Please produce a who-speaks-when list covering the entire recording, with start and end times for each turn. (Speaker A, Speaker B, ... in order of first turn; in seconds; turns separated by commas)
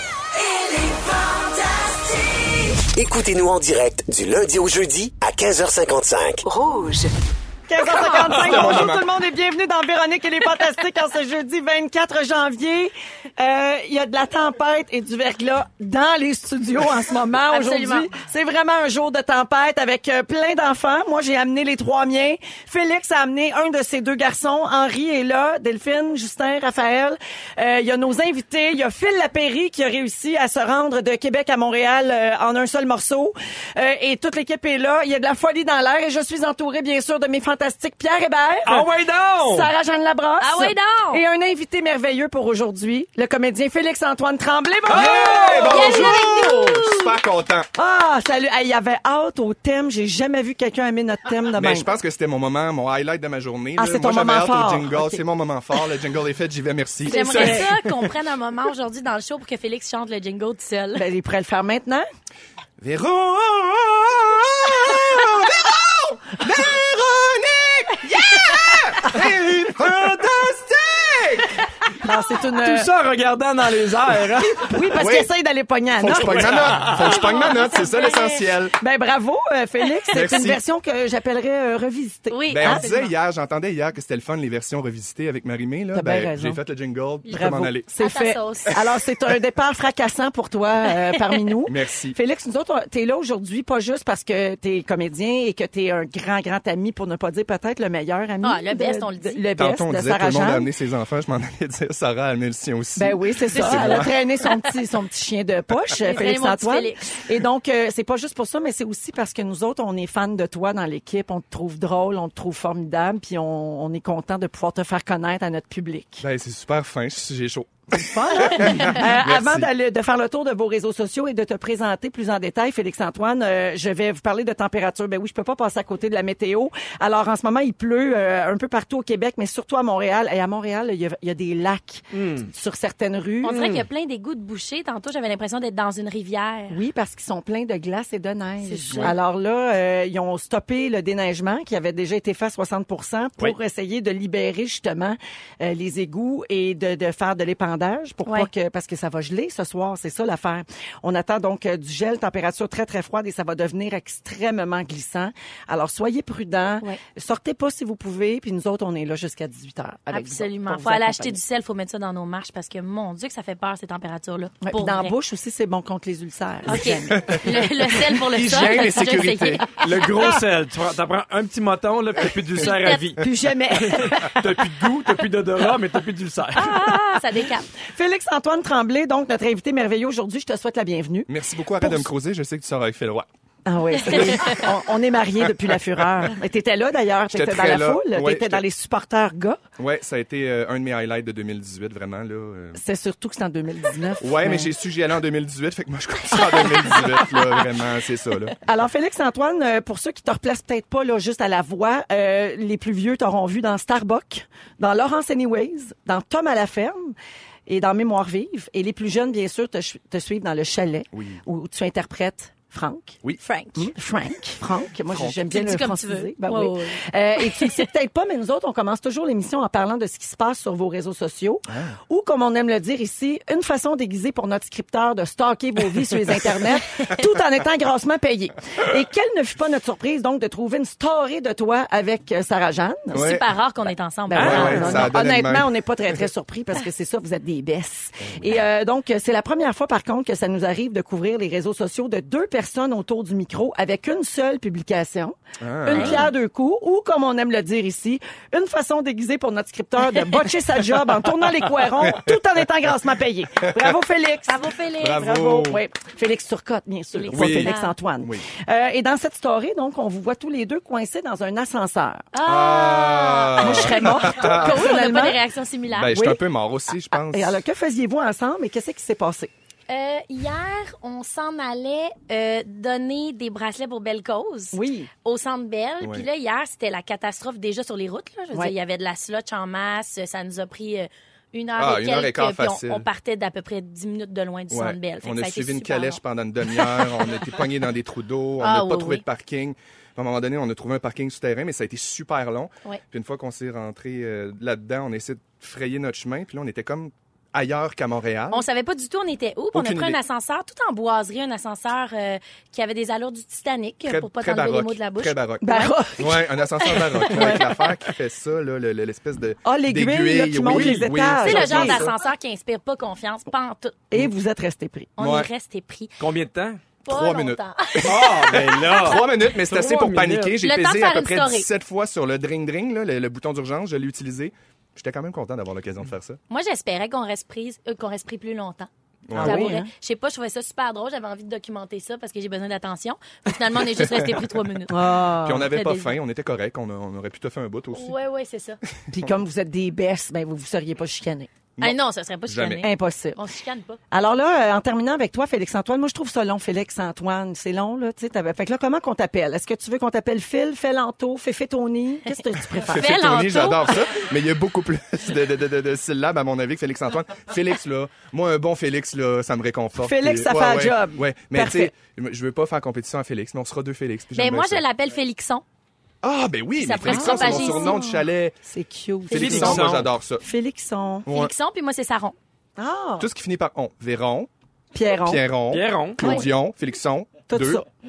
Speaker A: 0.5-6.8, Speaker B: 7.7-38.9, Speaker C: 8.0-9.0, Speaker D: 8.1-8.8, Speaker E: 17.5-18.1, Speaker D: 38.7-39.7, Speaker B: 39.4-46.3, Speaker E: 40.4-41.2, Speaker C: 44.9-47.7, Speaker D: 44.9-45.2, Speaker E: 45.6-47.1, Speaker B: 47.8-51.9, Speaker C: 51.5-58.1, Speaker B: 53.8-55.2, Speaker E: 57.0-61.1, Speaker B: 57.1-57.6, Speaker B: 61.0-62.0, Speaker C: 62.8-71.7, Speaker B: 72.0-72.9, Speaker D: 72.6-74.9, Speaker B: 74.6-76.6, Speaker C: 74.9-75.3, Speaker C: 76.0-78.8, Speaker D: 76.1-77.4, Speaker E: 77.0-78.5, Speaker B: 78.8-82.9, Speaker E: 80.0-80.4, Speaker C: 80.1-80.6, Speaker E: 82.3-83.1, Speaker C: 82.5-87.9, Speaker B: 85.9-86.6, Speaker E: 87.2-88.8, Speaker B: 87.3-100.7, Speaker C: 91.7-92.2, Speaker E: 98.4-99.4, Speaker C: 99.5-104.1, Speaker B: 103.0-116.2, Speaker E: 103.5-104.6, Speaker E: 106.0-107.0, Speaker C: 116.2-119.7, Speaker B: 117.9-133.7, Speaker E: 118.7-118.9, Speaker D: 132.1-132.5, Speaker E: 133.4-136.8, Speaker D: 133.5-133.8, Speaker B: 136.7-161.4, Speaker E: 138.6-139.2, Speaker E: 160.1-165.1, Speaker B: 164.6-167.7, Speaker E: 166.7-169.8, Speaker C: 166.8-169.7, Speaker D: 169.8-176.9, Speaker E: 172.6-173.0, Speaker B: 173.2-174.4, Speaker E: 176.5-177.7, Speaker B: 177.9-182.1, Speaker C: 181.3-183.3, Speaker B: 183.7-189.6, Speaker E: 183.9-184.7, Speaker C: 184.1-184.6, Speaker C: 185.7-186.0, Speaker C: 187.3-188.6, Speaker C: 189.8-192.8, Speaker B: 192.7-194.7, Speaker C: 194.2-198.6, Speaker B: 198.6-207.1, Speaker B: 207.7-213.2, Speaker C: 211.1-211.4, Speaker E: 213.4-213.9, Speaker B: 213.8-233.3, Speaker C: 215.1-215.5, Speaker E: 215.5-217.8, Speaker C: 221.7-221.9, Speaker C: 233.1-233.4, Speaker E: 233.1-235.1, Speaker D: 234.3-235.0, Speaker B: 234.3-254.6, Speaker C: 234.3-235.7, Speaker C: 238.2-238.5, Speaker C: 245.6-246.3, Speaker E: 245.9-246.3, Speaker C: 252.0-252.3, Speaker C: 253.6-253.9, Speaker E: 254.5-255.3, Speaker C: 255.0-255.8, Speaker B: 255.2-262.2, Speaker E: 257.1-257.9, Speaker C: 257.3-258.4, Speaker E: 262.3-266.2, Speaker C: 262.4-265.0, Speaker B: 263.6-265.4, Speaker C: 266.0-267.6, Speaker B: 266.1-266.4, Speaker B: 267.1-269.5, Speaker E: 269.9-287.4, Speaker B: 274.7-275.1, Speaker C: 276.0-276.2, Speaker C: 281.8-283.1, Speaker C: 284.7-298.7, Speaker E: 288.6-289.2, Speaker E: 298.5-305.9, Speaker C: 299.7-300.2, Speaker C: 304.0-312.1, Speaker B: 305.6-307.7, Speaker B: 309.6-312.1, Speaker D: 310.6-311.1, Speaker E: 311.4-314.0, Speaker B: 314.1-315.1, Speaker E: 315.2-316.2, Speaker C: 315.2-315.5, Speaker D: 316.2-316.8, Speaker E: 317.1-319.2, Speaker C: 317.1-326.4, Speaker D: 318.0-320.6, Speaker E: 320.6-321.7, Speaker E: 326.5-335.0, Speaker C: 329.3-329.8, Speaker B: 329.4-329.9, Speaker B: 334.9-335.7, Speaker C: 335.4-338.2, Speaker E: 335.7-336.2, Speaker E: 337.9-338.8, Speaker B: 339.1-341.5, Speaker C: 341.8-342.9, Speaker E: 341.8-344.0, Speaker B: 342.8-343.4, Speaker B: 344.1-353.4, Speaker E: 352.8-354.2, Speaker C: 352.8-364.8, Speaker B: 360.0-361.9, Speaker E: 364.4-365.6, Speaker C: 366.2-368.6, Speaker E: 366.8-368.2, Speaker B: 367.1-368.1, Speaker B: 368.7-371.3, Speaker C: 369.3-370.4, Speaker D: 369.3-370.1, Speaker E: 369.4-369.7, Speaker C: 371.2-371.5, Speaker E: 371.3-372.4, Speaker B: 372.8-373.3, Speaker C: 373.2-374.5, Speaker B: 374.9-375.4, Speaker C: 375.2-377.8, Speaker D: 375.7-376.4, Speaker B: 377.5-377.9